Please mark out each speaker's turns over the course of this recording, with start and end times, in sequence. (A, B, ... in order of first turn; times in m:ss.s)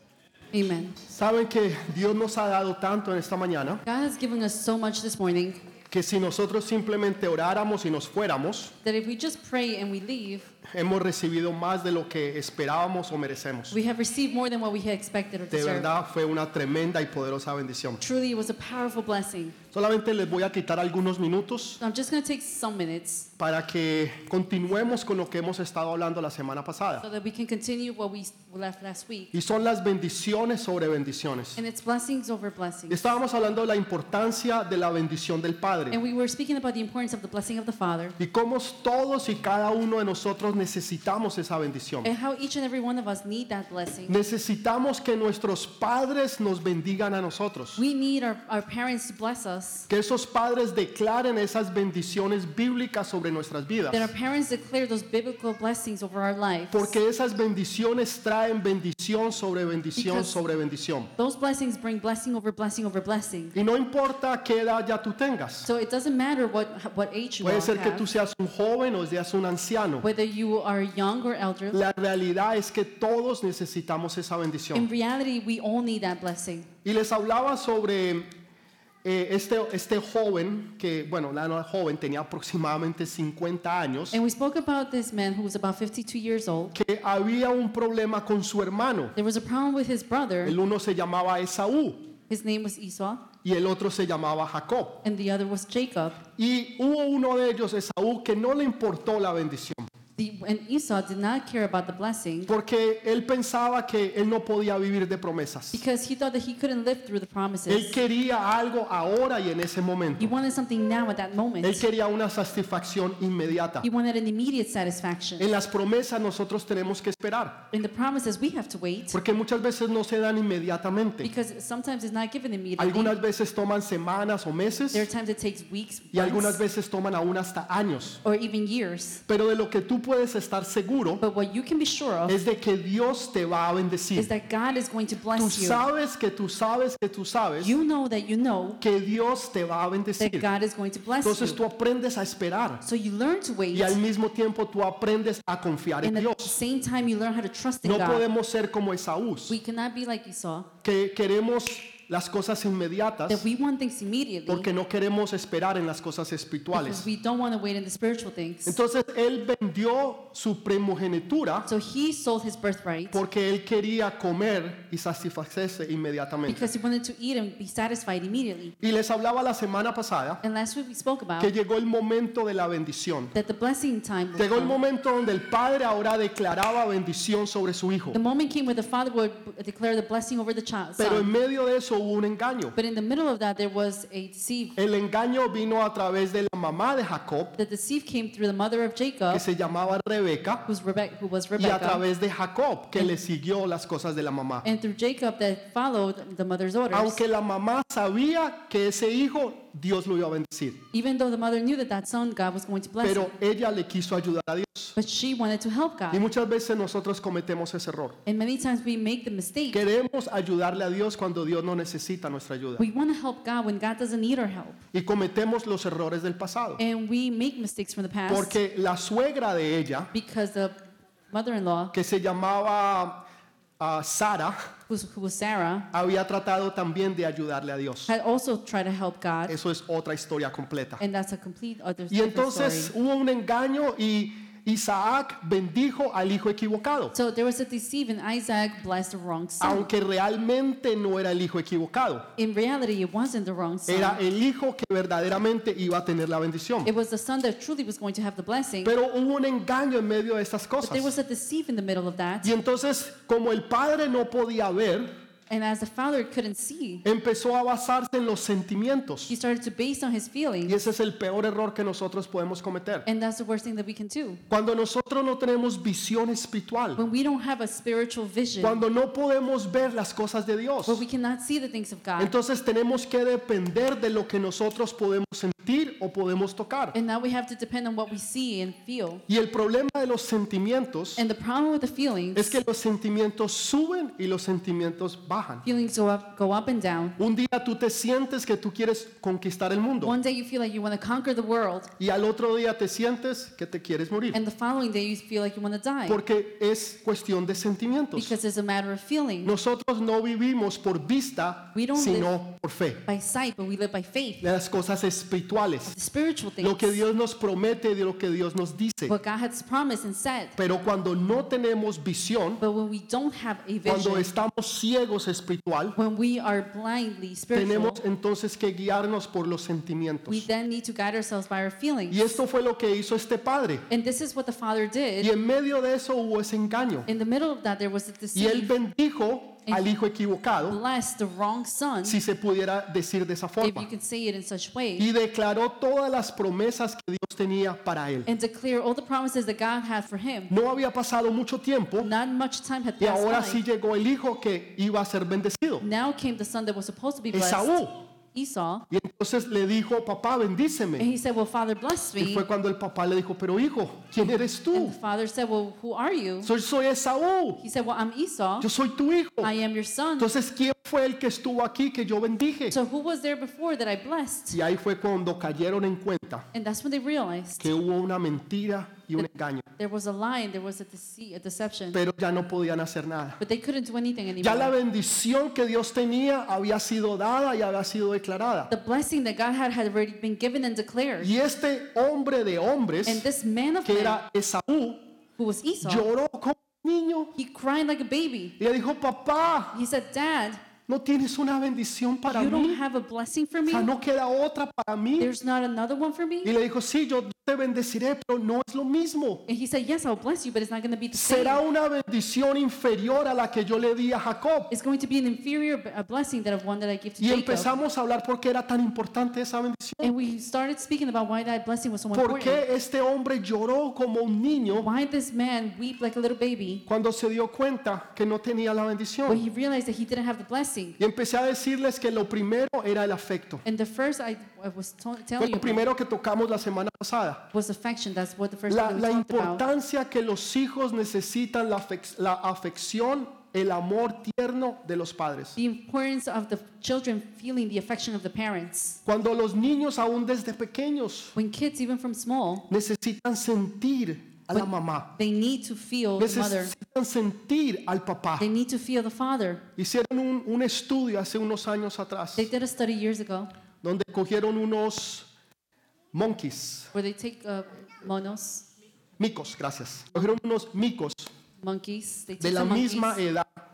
0:00.5-0:01.0 A
0:01.0-0:03.8 B
0:03.8-0:05.6 A
0:05.9-0:08.7 B
0:08.8-0:10.5 A
0:10.7-0:13.8 B
0:13.7-0:15.9 A
0:15.5-0:18.0 B
0:18.0-0:19.6 A
0:19.7-0:21.8 B
0:21.8-0:23.3 A
0:23.4-0:27.0 B
0:27.0-0:29.3 A
0:29.3-0:31.6 B
0:31.6-0:33.1 A
0:32.9-0:36.0 B
0:35.9-0:38.2 A
0:38.2-0:42.1 B
0:42.0-0:44.2 A
0:44.1-0:47.8 B
0:47.8-0:49.9 A
0:49.9-0:54.1 B
0:53.9-0:57.0 A
0:56.7-1:01.1 B
1:00.0-1:00.4 A
1:01.2-1:03.5 A
1:03.5-1:05.7 B
1:05.6-1:08.0 A
1:07.4-1:10.0 B
1:10.0-1:11.8 A
1:11.7-1:14.9 B
1:14.7-1:16.7 A
1:16.8-1:18.3 B
1:19.0-1:24.2 B
1:24.1-1:26.7 A
1:26.7-1:29.2 B
1:29.2-1:30.6 A
1:30.4-1:32.1 B
1:32.3-1:33.3 A
1:33.4-1:35.0 B
1:35.0-1:36.2 A
1:36.4-1:39.9 B
1:40.2-1:42.5 A
1:42.5-1:45.8 B
1:45.7-1:48.0 A
1:47.7-1:50.3 B
1:50.2-1:51.9 A
1:51.6-1:53.9 B
1:53.8-1:55.5 A
1:55.4-1:57.6 B
1:57.7-1:59.2 A
1:59.1-2:01.3 B
2:01.2-2:03.1 A
2:02.8-2:05.1 B
2:04.9-2:06.6 A
2:06.1-2:08.2 B
2:08.2-2:09.2 A
2:09.3-2:11.2 B
2:11.2-2:12.4 A
2:12.3-2:14.3 B
2:14.2-2:15.8 A
2:15.3-2:17.8 B
2:17.6-2:18.8 A
2:18.8-2:20.4 B
2:20.2-2:21.6 A
2:21.2-2:22.8 B
2:22.8-2:24.0 A
2:23.7-2:26.6 B
2:26.0-2:28.2 A
2:27.8-2:29.6 B
2:29.5-2:30.7 A
2:30.8-2:33.4 B
2:33.3-2:34.7 A
2:34.5-2:37.0 B
2:36.7-2:38.8 A
2:38.6-2:41.7 B
2:41.6-2:43.2 A
2:43.1-2:46.7 B
2:46.4-2:48.7 A
2:48.8-2:50.4 B
2:50.4-2:51.5 A
2:51.4-2:53.3 B
2:53.3-2:54.8 A
2:54.4-2:58.2 B
2:58.1-3:01.3 A
3:01.0-3:02.8 B
3:02.8-3:04.8 A
3:04.8-3:07.6 B
3:07.6-3:09.4 A
3:09.3-3:10.6 B
3:10.7-3:12.0 A
3:11.6-3:14.6 B
3:14.6-3:17.2 A
3:16.9-3:20.8 B
3:20.9-3:23.3 A
3:23.0-3:24.9 B
3:25.0-3:26.2 A
3:26.1-3:28.2 B
3:28.2-3:29.8 A
3:29.7-3:32.8 B
3:32.8-3:34.8 A
3:34.9-3:36.8 B
3:36.8-3:38.6 A
3:38.3-3:40.1 B
3:40.1-3:40.8 A
3:41.3-3:41.9 A
3:41.9-3:43.2 B
3:43.8-3:44.7 B
3:44.9-3:45.9 A
3:45.9-3:48.1 B
3:48.1-3:49.6 A
3:49.5-3:51.0 B
3:51.0-3:52.9 A
3:52.1-3:57.1 B
3:57.1-3:59.9 A
3:59.6-4:02.3 B
4:02.4-4:04.2 A
4:03.9-4:06.9 B
4:06.8-4:08.9 A
4:08.8-4:11.1 B
4:10.8-4:12.5 A
4:12.4-4:15.1 B
4:15.5-4:17.0 A
4:17.0-4:19.3 B
4:19.3-4:20.8 A
4:20.7-4:23.1 B
4:23.0-4:24.4 A
4:24.5-4:27.0 B
4:27.0-4:28.8 A
4:28.6-4:31.0 B
4:30.9-4:32.3 A
4:32.2-4:37.0 B
4:36.9-4:39.2 A
4:39.3-4:41.2 B
4:41.2-4:42.6 A
4:42.3-4:45.6 B
4:45.6-4:47.2 A
4:47.2-4:50.1 B
4:50.0-4:51.9 A
4:52.0-4:54.4 B
4:54.3-4:56.2 A
4:56.1-4:58.3 B
4:58.2-4:59.5 A
4:59.4-5:03.1 B
5:01.7-5:02.3 A
5:03.1-5:04.5 A
5:04.4-5:05.9 B
5:05.9-5:07.0 A
5:06.6-5:09.2 B
5:09.1-5:10.5 A
5:10.6-5:12.6 B
5:12.6-5:14.3 A
5:13.8-5:16.0 B
5:16.0-5:18.0 A
5:17.5-5:20.4 B
5:20.3-5:22.4 A
5:22.1-5:23.8 B
5:23.9-5:25.3 A
5:25.2-5:27.1 B
5:27.1-5:28.7 A
5:28.3-5:30.8 B
5:30.7-5:32.2 A
5:32.0-5:33.9 B
5:33.6-5:35.1 A
5:35.0-5:38.3 B
5:38.3-5:40.5 A
5:40.5-5:42.1 B
5:42.0-5:43.6 A
5:43.0-5:45.8 B
5:45.8-5:47.8 A
5:47.3-5:48.0 B
5:48.3-5:48.8 A
5:48.9-5:51.1 B
5:51.0-5:52.4 A
5:52.2-5:55.0 B
5:54.7-5:56.5 A
5:56.4-5:57.6 B
5:57.6-5:58.7 A
5:58.6-5:59.5 B
5:59.4-6:00.3 A
6:00.2-6:02.8 B
6:02.7-6:04.6 A
6:04.5-6:06.5 B
6:06.5-6:07.7 A
6:07.6-6:09.7 B
6:09.8-6:12.0 A
6:11.9-6:13.4 B
6:13.4-6:14.7 A
6:14.4-6:18.7 B
6:18.7-6:21.3 A
6:21.2-6:23.2 B
6:23.0-6:24.2 A
6:23.8-6:25.1 B
6:25.4-6:26.1 A
6:25.8-6:27.3 B
6:27.4-6:28.6 A
6:28.6-6:29.8 B
6:29.7-6:30.6 A
6:30.9-6:32.8 B
6:32.3-6:33.9 A
6:33.7-6:35.3 B
6:35.2-6:36.5 A
6:36.4-6:39.4 B
6:39.5-6:41.6 A
6:41.1-6:44.7 B
6:44.7-6:47.7 A
6:47.2-6:50.1 B
6:50.0-6:52.6 A
6:52.1-6:54.9 B
6:54.7-6:56.8 A
6:56.9-6:59.4 B
6:59.3-7:01.0 A
7:01.0-7:03.6 B
7:03.6-7:05.8 A
7:05.4-7:07.5 B
7:07.5-7:09.6 A
7:08.7-7:15.6 B
7:15.6-7:19.0 A
7:19.0-7:21.3 B
7:21.3-7:22.7 A
7:22.7-7:25.1 B
7:24.5-7:26.7 A
7:26.2-7:28.5 B
7:28.4-7:29.6 A
7:29.8-7:32.5 B
7:32.4-7:33.5 A
7:33.8-7:35.3 B
7:36.1-7:36.9 B
7:36.9-7:38.7 A
7:39.2-7:41.3 B
7:41.6-7:43.2 A
7:42.4-7:43.5 B